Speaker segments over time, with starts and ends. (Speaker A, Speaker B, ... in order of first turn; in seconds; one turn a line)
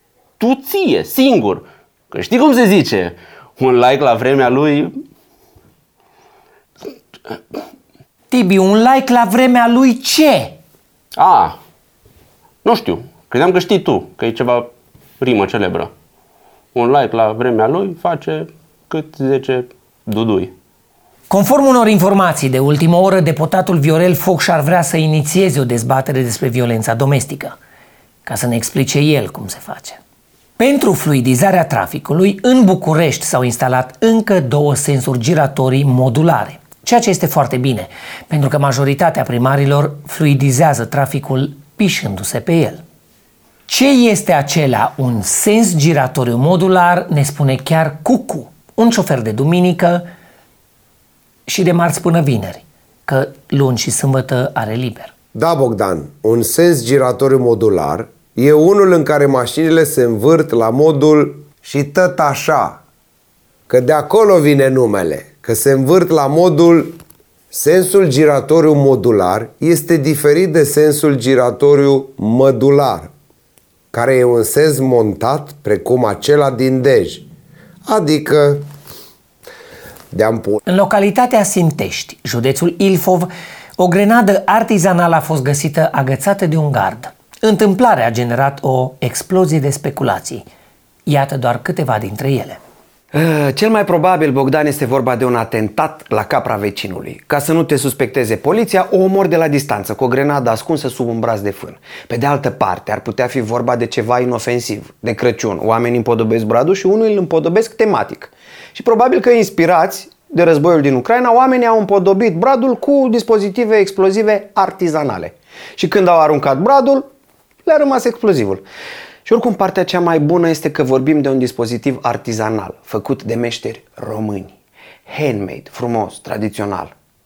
Speaker A: 0.4-4.9
Speaker B: 8.3-10.6
Speaker A: 11.2-11.6
Speaker A: 12.6-15.9
Speaker A: 16.7-20.5
Speaker B: 21.3-27.6
Speaker B: 28.2-30.0
Speaker B: 30.6-42.8
Speaker B: 43.7-50.1
Speaker B: 51.5-55.1
Speaker C: 55.3-62.8
Speaker C: 63.7-67.0
Speaker C: 67.5-73.1
Speaker C: 73.9-77.2
Speaker C: 77.8-78.7
Speaker C: 80.1-80.6
Speaker B: 80.7-90.4
Speaker B: 91.0-92.6
Speaker D: 93.1-117.1
Speaker D: 117.7-118.6
Speaker D: 119.2-124.5
Speaker D: 125.1-126.9